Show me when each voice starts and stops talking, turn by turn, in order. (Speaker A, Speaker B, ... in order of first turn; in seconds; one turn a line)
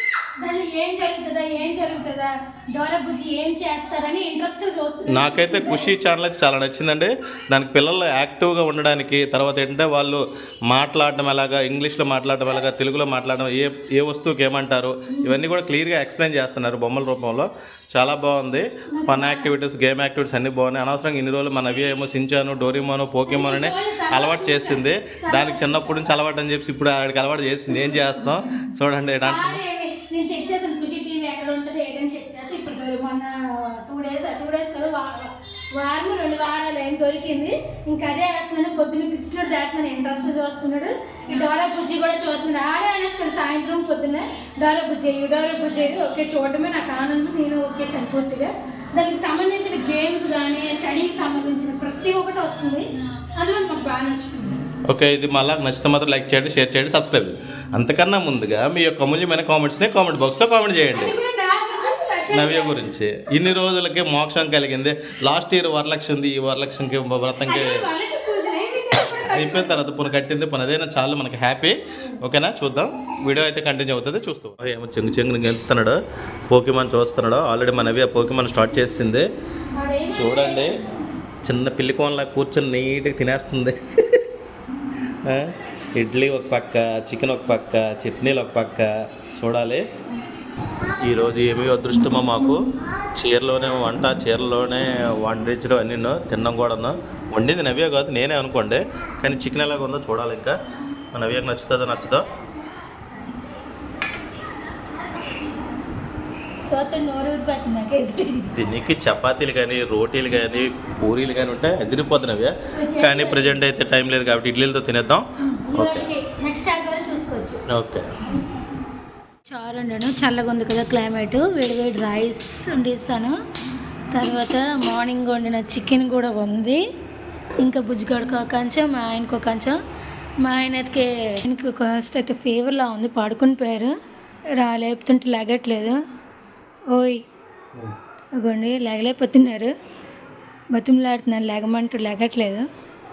Speaker A: 0.4-5.9
Speaker B: 5.1-29.6
Speaker A: 15.1-15.4
Speaker A: 18.9-19.5
Speaker A: 23.3-26.0
Speaker A: 27.7-28.5
Speaker A: 29.2-54.6
Speaker B: 54.9-61.1
Speaker A: 60.9-62.8
Speaker B: 62.3-67.8
Speaker A: 67.5-69.8
Speaker B: 69.2-76.0
Speaker B: 76.5-79.2
Speaker A: 79.7-80.9
Speaker B: 80.1-80.7
Speaker B: 81.4-83.8
Speaker B: 85.2-89.8
Speaker B: 91.0-92.6
Speaker B: 93.2-100.5
Speaker B: 101.1-102.2
Speaker A: 106.7-108.5
Speaker B: 108.5-115.2
Speaker A: 112.7-113.5
Speaker A: 115.4-117.6
Speaker B: 115.8-116.1
Speaker B: 117.7-118.1
Speaker A: 119.5-123.4
Speaker A: 124.1-126.8
Speaker A: 127.6-129.8
Speaker A: 130.4-133.9
Speaker A: 134.6-136.0
Speaker A: 136.9-137.2
Speaker A: 138.4-139.7
Speaker A: 140.7-142.7